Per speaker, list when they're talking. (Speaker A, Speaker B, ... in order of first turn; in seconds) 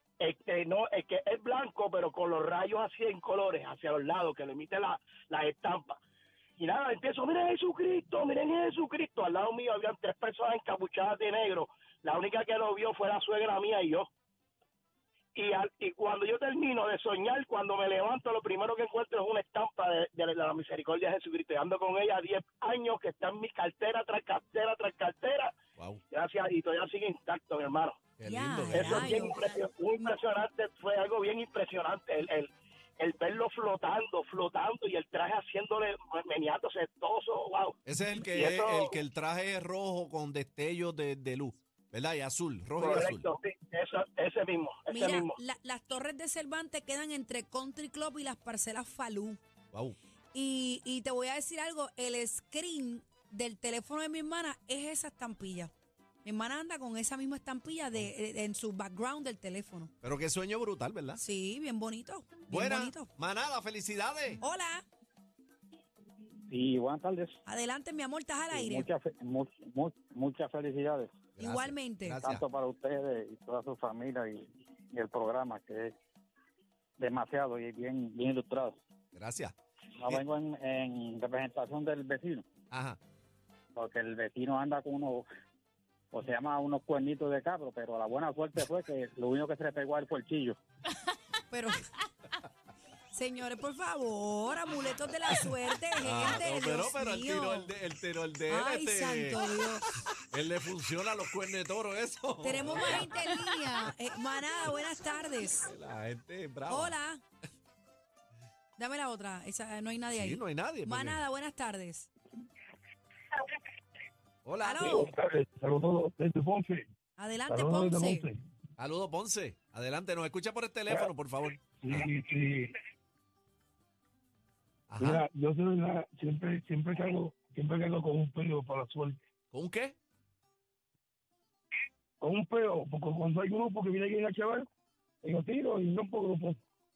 Speaker A: 0.2-6.0, 6.6-14.1, 15.3-25.5, 26.1-28.1, 28.7-37.8, 38.3-39.0, 42.8-45.4
Speaker B: 28.2-29.3, 37.9-43.3, 60.0-61.2, 62.5-64.4, 71.4-72.4, 79.1-79.5, 82.7-83.0, 96.0-99.4, 100.2-103.1, 105.5-107.0, 110.1-111.2, 114.5-115.0, 118.8-122.0, 124.9-125.3, 129.5-130.0
Speaker C: 28.2-29.4, 44.9-49.4, 50.3-55.7, 56.2-59.9, 61.2-63.1, 64.4-64.8, 67.5-68.9, 71.4-72.2, 91.5-91.9, 93.1-97.7, 98.5-99.8, 102.4-105.7, 106.7-107.2, 108.8-112.1, 114.6-115.1, 117.2-118.3
Speaker D: 66.5-67.4, 68.5-71.1, 72.2-75.9, 77.0-78.8, 80.0-82.4, 83.8-85.3, 86.1-90.6
Speaker E: 114.8-116.9, 117.5-118.4, 121.8-122.7, 125.0-129.2, 132.2-134.7, 135.2-136.6